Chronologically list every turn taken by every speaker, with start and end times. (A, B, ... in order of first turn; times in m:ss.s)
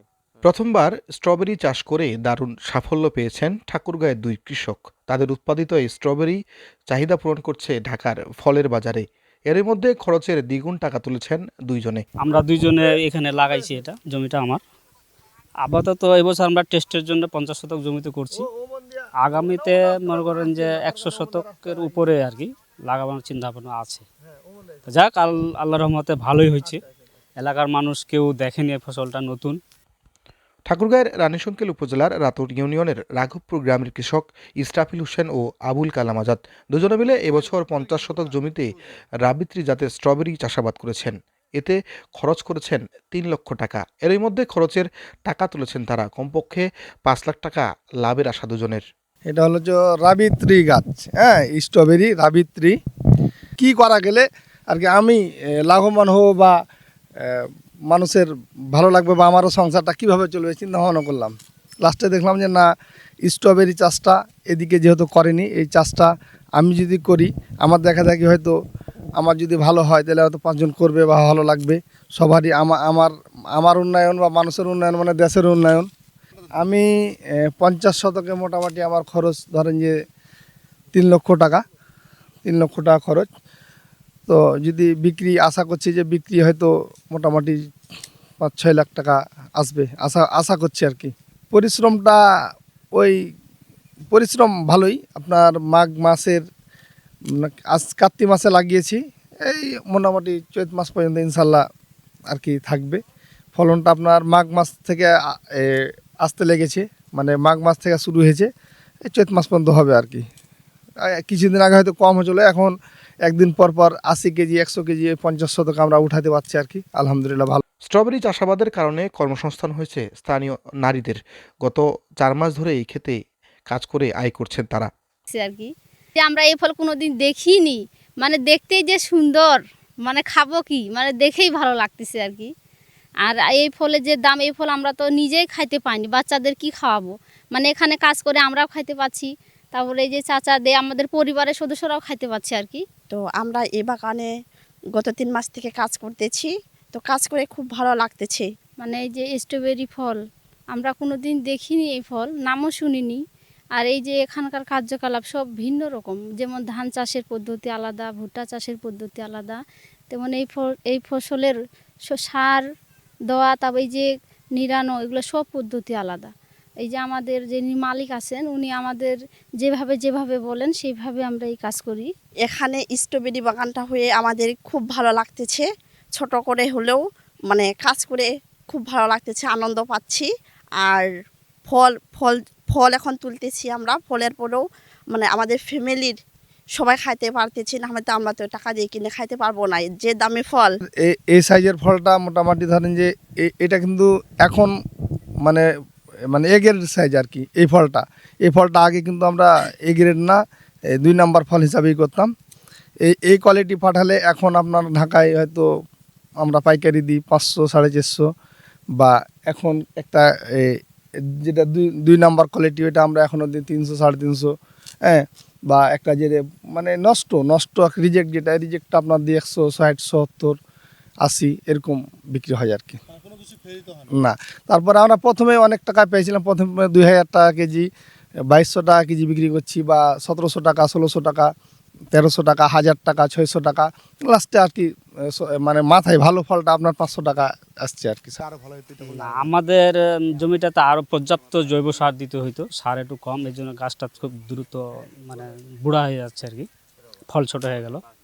0:00.4-0:12.0 A
0:12.2-0:14.6 B
0:15.6-0:18.5 B
0:19.2-0:24.1 B
0:24.8-0:26.8 B
0:27.4-0:29.6 B
0:30.7-0:38.7 A
0:39.2-0:48.8 A
0:49.3-0:52.8 C
0:53.6-0:56.6 C
0:57.2-1:02.7 C
1:03.2-1:08.6 C
1:09.2-1:15.9 C
1:16.6-1:20.0 C
1:20.9-1:21.6 C
1:22.4-1:23.3 C
1:24.3-1:27.6 C
1:28.4-1:32.2 C
1:34.1-1:36.4 C
1:37.4-1:41.6 C
1:42.3-1:43.0 C
1:43.6-1:48.5 C
1:49.1-1:50.2 C
1:51.0-1:57.6 C
1:57.8-2:04.9 A
2:05.3-2:12.5 D
2:13.2-2:22.8 D
2:23.1-2:24.3 E
2:25.0-2:28.5 E
2:28.8-2:30.2 D
2:30.7-2:33.2 D
2:33.8-2:41.6 D
2:42.1-2:42.6 D
2:43.3-2:52.1 D
2:52.5-3:00.3 E
3:01.7-3:06.2 E
3:06.8-3:10.8 E
3:11.0-3:14.7 C
3:16.3-3:20.4 C
3:21.0-3:22.3 C
3:23.0-3:25.7 C
3:26.4-3:28.3 C
3:29.0-3:30.8 C
3:31.3-3:34.5 C
3:35.0-3:40.6 C
3:41.2-3:43.0 C
3:44.1-3:47.9 C
3:48.5-3:51.5 C
3:52.1-3:58.4 C
3:59.0-4:06.7 B
4:07.3-4:08.0 B